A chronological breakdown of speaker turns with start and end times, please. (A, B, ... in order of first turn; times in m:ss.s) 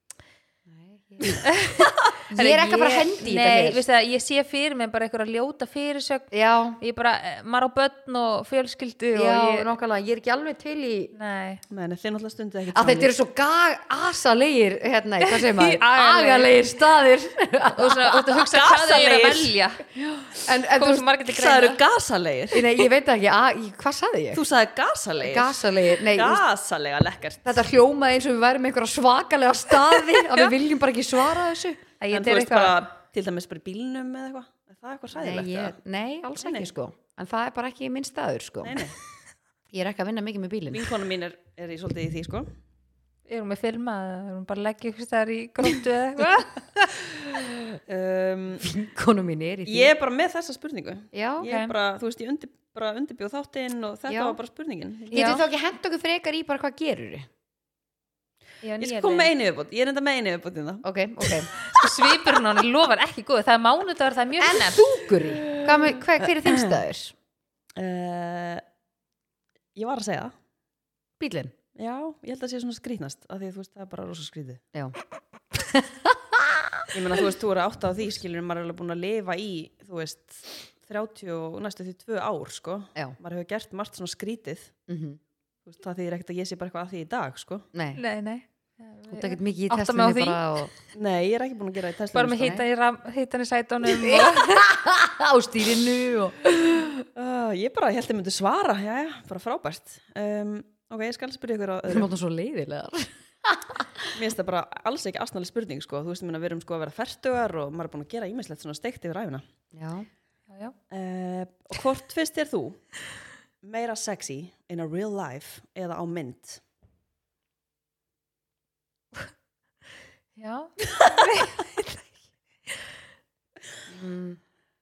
0:00.7-0:01.4 A
0:01.4-0:06.3 B
0:02.3-0:03.8 A
0:06.3-0:06.8 A
0:06.8-0:09.7 B
0:09.1-0:11.1 A
0:11.1-0:11.6 B
0:11.7-0:13.1 C
0:12.7-0:18.2 A
0:15.2-0:16.5 B
0:17.7-0:19.8 B
0:18.3-0:19.5 C
0:20.0-0:21.1 A
0:20.8-0:21.8 B
0:21.2-0:22.8 C
0:22.5-0:24.4 A
0:24.3-0:27.6 C
0:25.2-0:26.4 A
0:27.4-0:31.8 A
0:32.0-0:32.8 B
0:32.1-0:35.7 C
0:35.1-0:38.8 A
0:36.4-0:36.7 C
0:38.6-0:38.9 C
0:39.7-0:40.9 A
0:40.7-0:42.5 C
0:43.3-0:46.9 B
0:46.9-0:48.8 C
0:48.6-0:49.9 A
0:49.6-0:55.4 C
0:51.1-0:51.5 A
0:51.4-0:51.7 B
0:54.1-0:54.4 A
0:55.1-0:57.3 A
0:55.1-0:55.4 B
0:58.6-0:59.3 B
0:58.8-1:01.4 C
1:00.8-1:01.5 A
1:01.6-1:04.8 B
1:04.4-1:07.1 A
1:05.2-1:06.8 C
1:07.8-1:08.6 C
1:09.8-1:10.3 C
1:11.2-1:11.5 A
1:11.8-1:14.6 C
1:15.5-1:16.9 A
1:16.9-1:24.7 C
1:24.9-1:25.2 A
1:25.6-1:27.6 C
1:27.7-1:28.0 A
1:28.0-1:30.6 B
1:29.1-1:30.7 A
1:30.9-1:32.6 C
1:32.1-1:34.7 B
1:32.4-1:32.6 A
1:33.9-1:36.5 A
1:37.1-1:42.1 C
1:41.9-1:44.1 A
1:44.1-1:49.4 C
1:49.7-1:50.1 A
1:50.9-1:52.8 C
1:53.6-1:56.6 C
2:00.4-2:02.0 B
2:03.9-2:04.4 A